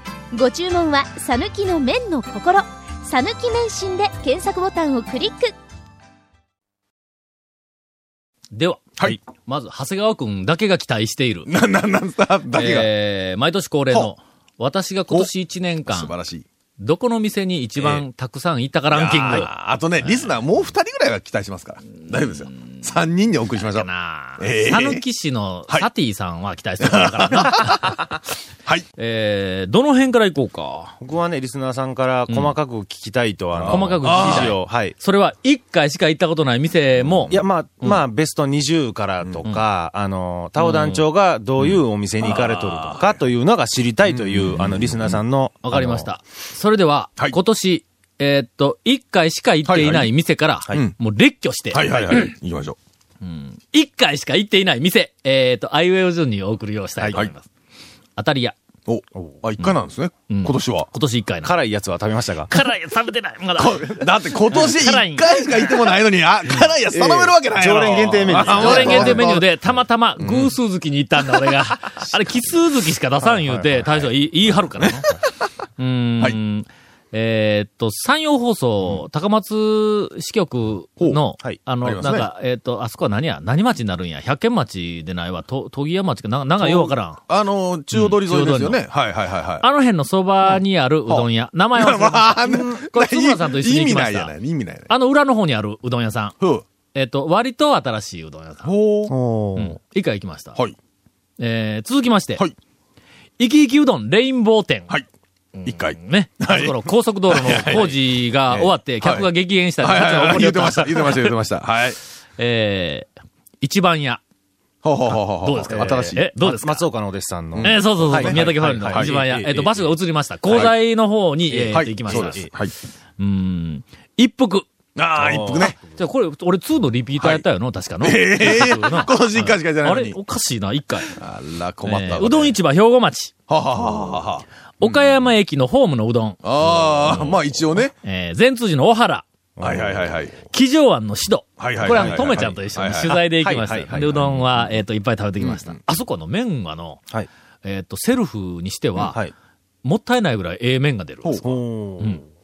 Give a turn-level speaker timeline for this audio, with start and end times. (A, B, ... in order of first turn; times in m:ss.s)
0:00.3-0:05.5 A
0:08.5-0:11.5 B
0:11.5-0:12.9 C
0:12.5-0:16.1 B
0:15.9-0:16.4 C
0:16.8-0:19.5 B
0:17.8-0:18.0 C
0:18.9-0:25.0 C
0:20.0-0:20.3 B
0:23.6-0:28.0 B
0:26.8-0:28.9 C
0:29.0-0:31.0 B
0:31.0-0:34.9 D
0:33.6-0:34.5 C
0:33.7-0:38.0 B
0:37.3-0:46.1 D
0:40.6-0:41.0 B
0:41.6-0:43.2 C
0:44.1-0:45.2 C
0:45.6-0:52.3 B
0:49.7-0:50.1 C
0:50.7-0:51.0 C
0:51.7-0:52.8 C
0:53.2-0:57.5 B
0:58.2-0:58.6 B
0:58.9-1:00.9 C
1:00.3-1:01.6 B
1:01.4-1:02.5 D
1:02.5-1:05.8 B
1:03.6-1:09.5 C
1:06.9-1:09.4 D
1:08.4-1:15.1 B
1:10.2-1:10.5 C
1:14.8-1:15.2 C
1:15.8-1:27.2 B
1:21.8-1:22.3 C
1:26.6-1:29.6 C
1:27.9-1:28.8 B
1:29.6-1:34.3 B
1:31.1-1:34.9 C
1:34.9-1:36.3 B
1:36.9-1:38.7 B
1:38.6-1:39.1 C
1:39.1-1:39.8 D
1:39.6-1:40.6 B
1:41.4-1:42.4 B
1:43.4-1:44.9 B
1:45.6-1:51.3 B
1:45.6-1:47.9 C
1:48.5-1:49.3 C
1:49.8-1:52.0 C
1:52.4-1:53.1 B
1:53.6-1:54.2 B
1:54.8-1:56.3 C
1:55.4-1:56.9 B
1:55.7-1:59.4 D
1:57.6-1:59.8 C
1:57.6-2:02.5 B
2:00.5-2:00.7 C
2:01.5-2:02.5 D
2:01.7-2:02.7 C
2:03.2-2:04.7 B
2:05.0-2:05.8 C
2:05.2-2:05.8 D
2:05.8-2:11.2 B
2:07.2-2:07.4 C
2:08.0-2:10.2 C
2:11.1-2:12.6 C
2:11.9-2:13.3 B
2:13.5-2:15.2 C
2:14.8-2:16.4 B
2:16.4-2:17.9 C
2:17.1-2:17.4 B
2:18.0-2:19.3 B
2:19.6-2:20.2 D
2:19.6-2:20.4 C
2:20.5-2:27.0 B
2:21.6-2:23.2 C
2:21.8-2:22.5 D
2:23.3-2:24.4 D
2:25.4-2:25.8 C
2:27.6-2:29.2 B
2:29.8-2:31.5 B
2:31.4-2:32.2 D